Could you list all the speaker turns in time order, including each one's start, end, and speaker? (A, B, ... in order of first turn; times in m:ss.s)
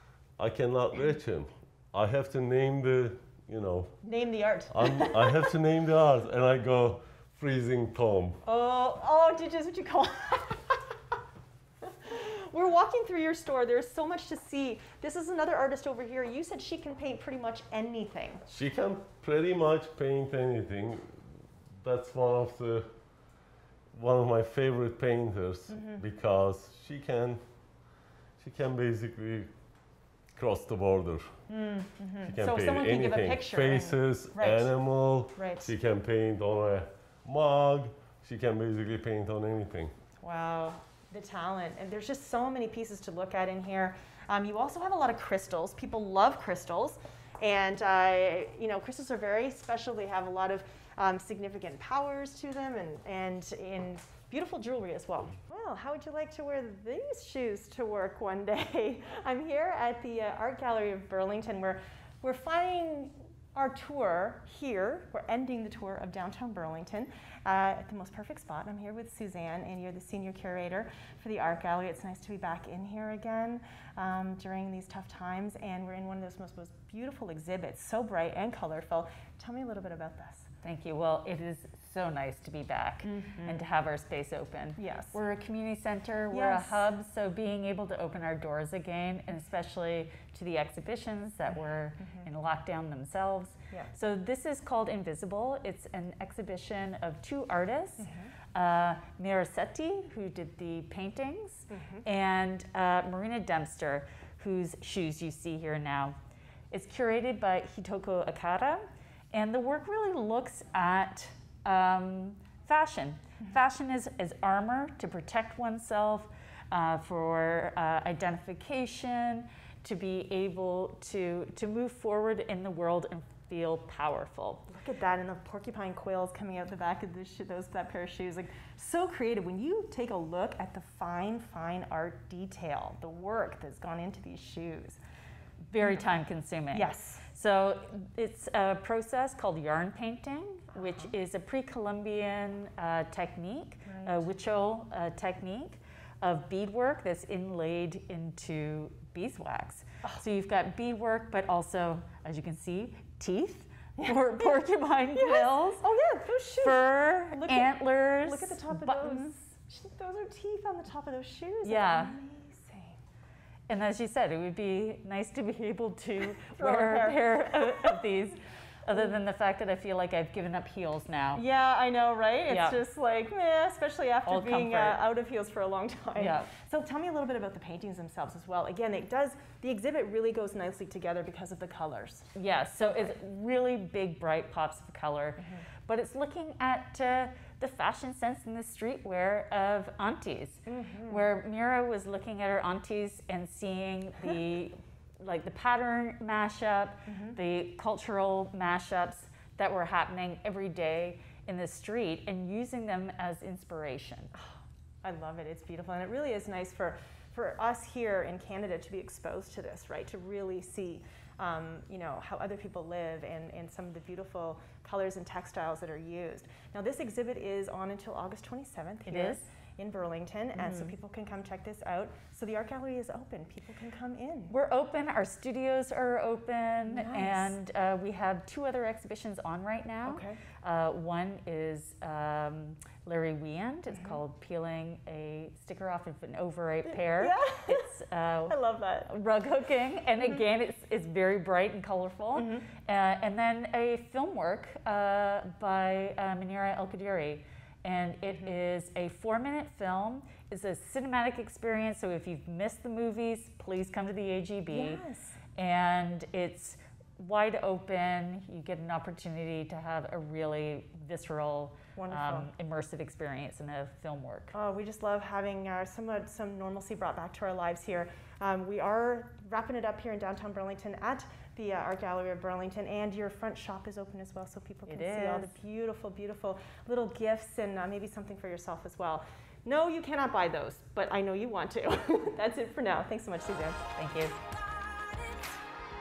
0:00.4-0:04.0 A
0:04.0-0:05.4 B
0:04.7-0:08.4 A
0:08.4-0:10.8 B
0:11.8-0:18.4 B
0:18.5-0:21.2 A
0:21.8-0:22.9 A
0:23.9-0:27.4 A
0:25.7-0:26.0 B
0:28.4-0:29.5 A
0:30.3-0:31.3 A
0:31.5-0:35.7 B
0:32.2-0:39.9 A
0:40.2-1:20.5 B
1:20.6-1:46.2 C
1:23.0-1:23.6 B
1:24.8-1:25.2 B
1:26.3-1:26.9 B
1:38.0-1:38.3 B
1:41.7-1:42.0 B
1:46.7-2:04.7 C
2:04.7-2:15.0 B
2:15.7-2:35.8 C
2:16.7-2:17.2 B
2:23.9-2:24.3 B
2:34.0-2:34.6 B
2:35.1-2:43.0 B
2:36.6-2:39.4 C
2:41.6-2:42.2 C
2:43.7-2:51.4 C
2:46.5-2:47.9 B
2:51.3-3:02.3 B
2:52.5-2:52.8 C
2:54.2-2:55.0 C
2:56.2-2:56.5 C
3:02.3-3:24.3 C
3:10.7-3:11.2 B
3:17.1-3:17.4 B
3:24.3-3:44.5 B
3:39.0-3:39.4 C
3:40.6-3:40.9 C
3:44.5-4:15.0 C
3:46.8-3:47.5 B
3:50.0-3:50.4 B
3:56.9-3:57.9 B
3:58.4-3:59.1 B
4:02.3-4:02.7 B
4:08.3-4:08.5 B
4:14.7-4:15.4 B
4:15.5-4:24.5 C
4:21.9-4:22.5 B
4:24.5-4:43.8 B
4:34.9-4:35.6 C
4:44.0-4:44.4 C